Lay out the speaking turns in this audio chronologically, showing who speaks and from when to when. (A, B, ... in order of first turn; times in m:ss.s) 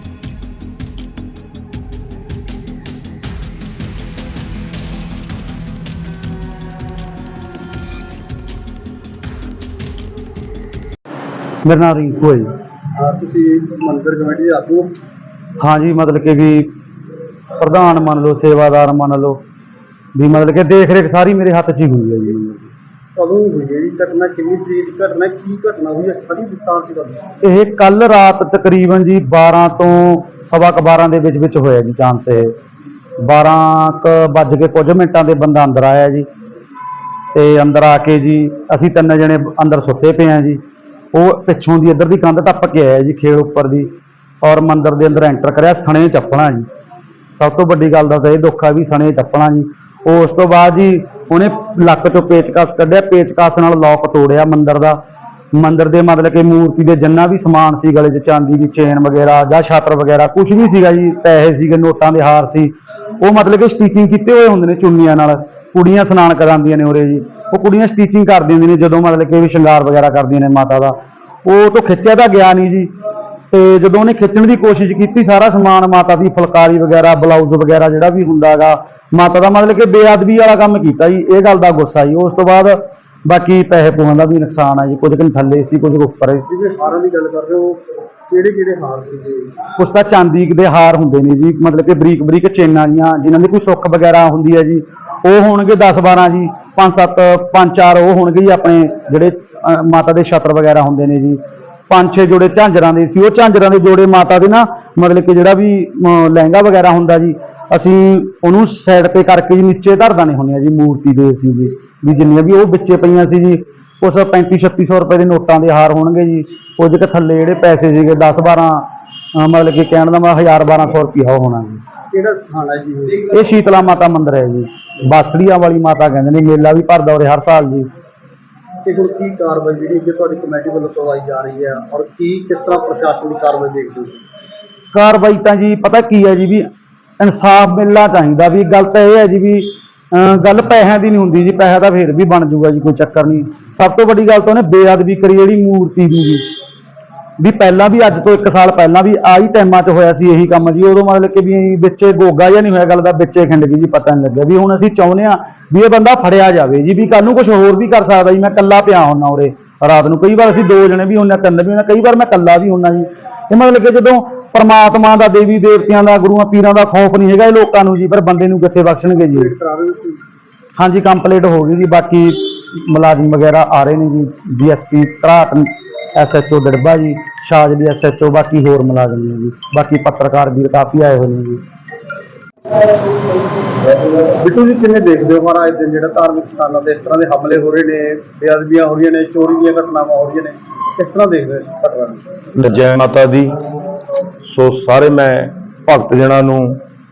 0:11.6-0:12.5 A
0:13.0-0:14.9 B
0:15.6-0:16.7 A
0:17.6-0:19.4 A
0:20.2-0:22.7 A
0:23.2-0:27.2 B
0:27.4-0:32.5 A
0:33.2-0:36.3 A
0:37.3-0:40.6 A
0:41.1-0:43.9 A
0:44.4-0:46.7 A
0:47.4-0:55.0 A
0:55.5-1:12.9 A
1:13.5-1:26.4 A
1:26.5-1:29.5 B
1:29.8-1:58.9 A
1:59.4-2:01.8 A
2:02.1-2:03.2 B
2:03.3-2:07.9 A
2:08.8-2:14.2 B
2:14.9-2:16.7 A
2:17.2-2:26.4 A
2:27.4-2:49.5 A
2:49.4-2:50.2 B
2:50.8-3:01.6 A
3:04.1-3:12.2 B
3:12.6-3:13.5 C
3:14.4-3:16.8 C